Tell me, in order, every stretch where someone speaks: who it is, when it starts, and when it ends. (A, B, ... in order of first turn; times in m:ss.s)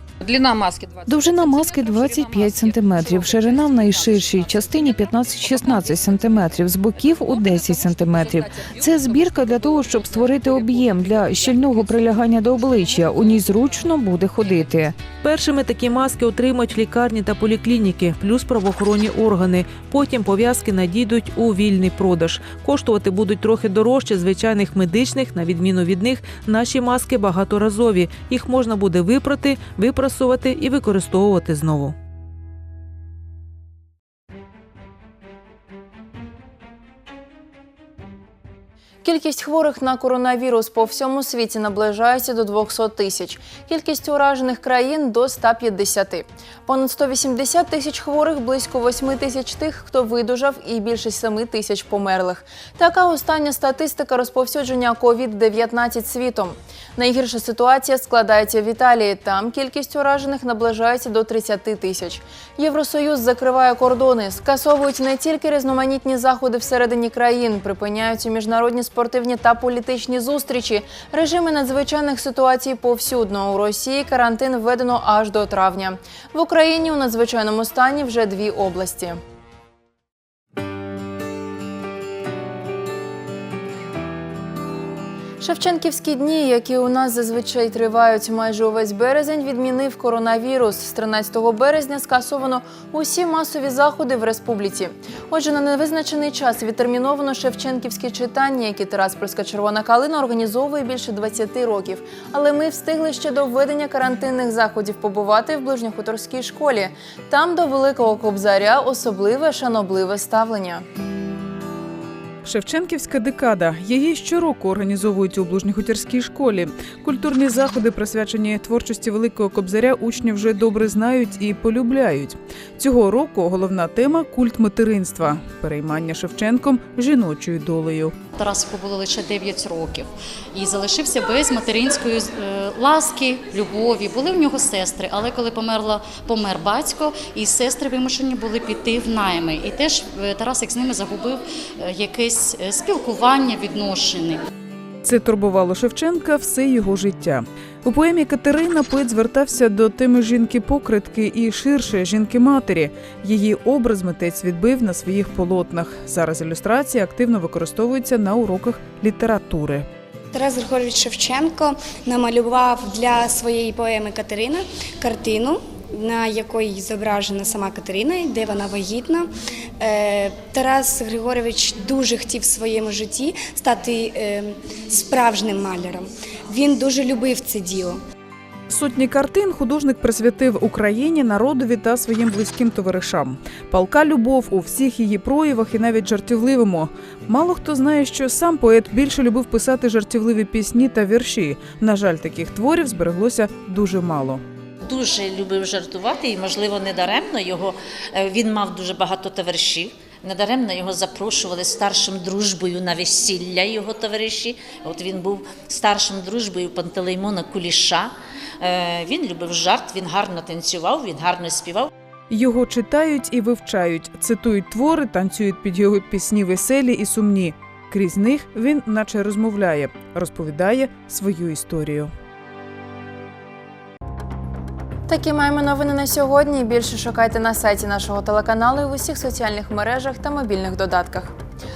0:00.2-0:06.3 A
0:01.0-0:15.0 B
0:06.9-0:11.9 A
0:13.2-0:13.5 A
0:15.2-0:31.9 C
0:39.0-1:19.2 D
1:25.4-1:50.8 D
1:52.4-2:08.1 E
2:08.4-2:24.4 F
2:25.0-2:39.9 E
2:40.3-2:49.3 G
2:49.8-2:58.0 G
2:58.7-3:14.4 E
3:14.8-3:31.9 H
3:32.3-3:42.1 E
3:45.1-3:51.3 D